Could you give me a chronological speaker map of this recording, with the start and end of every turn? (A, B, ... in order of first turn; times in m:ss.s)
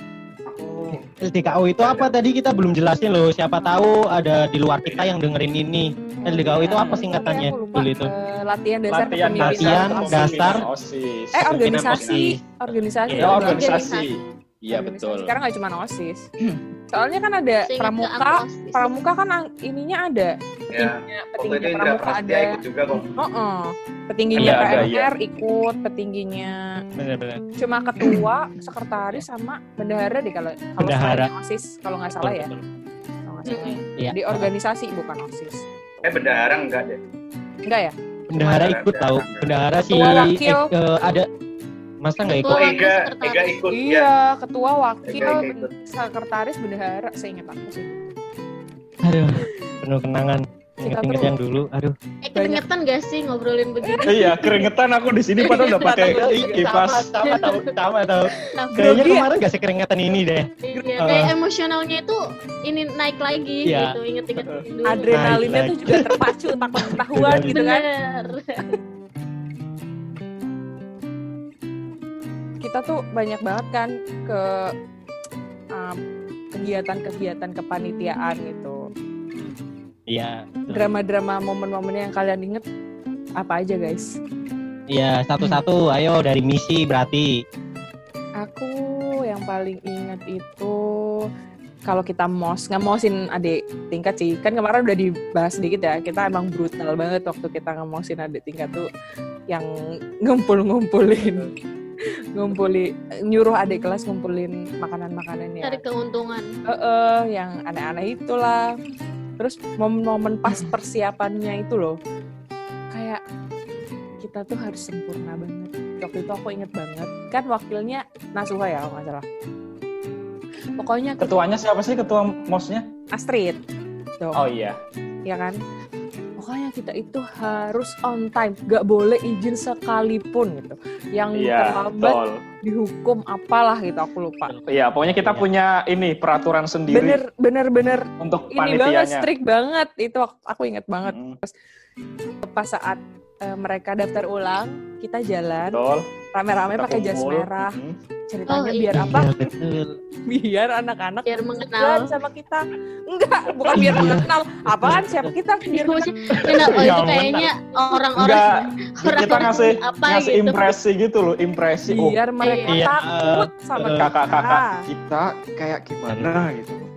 0:00.5-0:02.1 A
0:01.2-0:08.1 B
0:04.8-0:05.1 A
0:06.2-0:10.5 C
0:06.5-0:07.0 D
0:08.9-0:11.8 D
0:09.4-0:10.6 B
0:11.3-0:13.9 C
0:11.4-0:12.4 B
0:11.8-0:12.2 A
0:13.1-0:13.4 B
0:13.2-0:15.3 D
0:13.4-0:14.1 E
0:14.7-0:16.2 C
0:16.9-0:22.6 C
0:17.6-0:18.8 E
0:20.7-0:23.1 A
0:23.2-0:26.8 C
0:24.3-0:25.1 D
0:24.4-0:24.9 B
0:27.0-0:27.4 B
0:27.6-0:32.5 C
0:30.8-0:31.3 B
0:32.2-0:32.6 B
0:33.2-0:36.1 C
0:33.4-0:33.8 E
0:34.0-0:34.5 B
0:36.0-0:37.0 A
0:37.6-0:37.9 C
0:38.3-0:41.3 B
0:38.3-0:39.6 A
0:39.9-0:40.7 C
0:42.0-0:42.7 B
0:42.4-0:43.6 E
0:42.5-0:44.1 A
0:43.7-0:48.1 C
0:45.1-0:45.7 A
0:49.0-0:51.9 B
0:50.8-0:51.3 C
0:52.2-0:54.6 E
0:52.3-0:52.6 C
0:53.8-0:54.5 C
0:54.0-0:57.1 D
0:55.4-0:56.6 C
0:56.0-1:00.5 B
0:57.2-0:57.7 E
0:58.6-0:59.3 C
1:00.6-1:05.4 E
1:01.0-1:01.3 B
1:03.6-1:04.0 B
1:04.8-1:07.8 C
1:05.1-1:07.6 B
1:07.5-1:08.6 E
1:12.6-1:14.7 C
1:16.5-1:18.9 C
1:20.1-1:20.9 B
1:20.7-1:22.6 C
1:23.4-1:24.2 C
1:24.9-1:27.4 B
1:28.4-1:31.2 C
1:31.8-1:38.9 C
1:40.2-1:41.5 C
1:42.3-1:45.8 C
1:45.6-1:46.5 E
1:46.7-1:48.7 C
1:49.4-1:52.0 C
1:52.9-1:53.2 C
1:54.2-1:59.2 C
2:00.8-2:01.4 C
2:01.2-2:02.9 D
2:03.1-2:03.6 C
2:04.2-2:04.4 C
2:04.3-2:04.8 D
2:05.2-2:05.6 C
2:06.4-2:14.5 C
2:11.3-2:12.3 D
2:14.4-2:15.5 B
2:14.7-2:17.2 D
2:16.9-2:21.5 C
2:18.2-2:19.3 D
2:21.0-2:21.4 D
2:22.4-2:25.8 C
2:25.7-2:26.0 D
2:26.3-2:27.8 C
2:26.7-2:28.0 D
2:28.3-2:29.3 C
2:28.5-2:29.0 E
2:28.9-2:30.0 B
2:30.3-2:36.5 C
2:31.3-2:32.1 E
2:33.7-2:35.3 B
2:35.7-2:40.7 E
2:36.4-2:37.5 B
2:38.1-2:42.2 D
2:41.9-2:44.8 C
2:42.4-2:42.8 E
2:42.7-2:44.1 B
2:43.8-2:46.9 D
2:46.1-2:46.4 B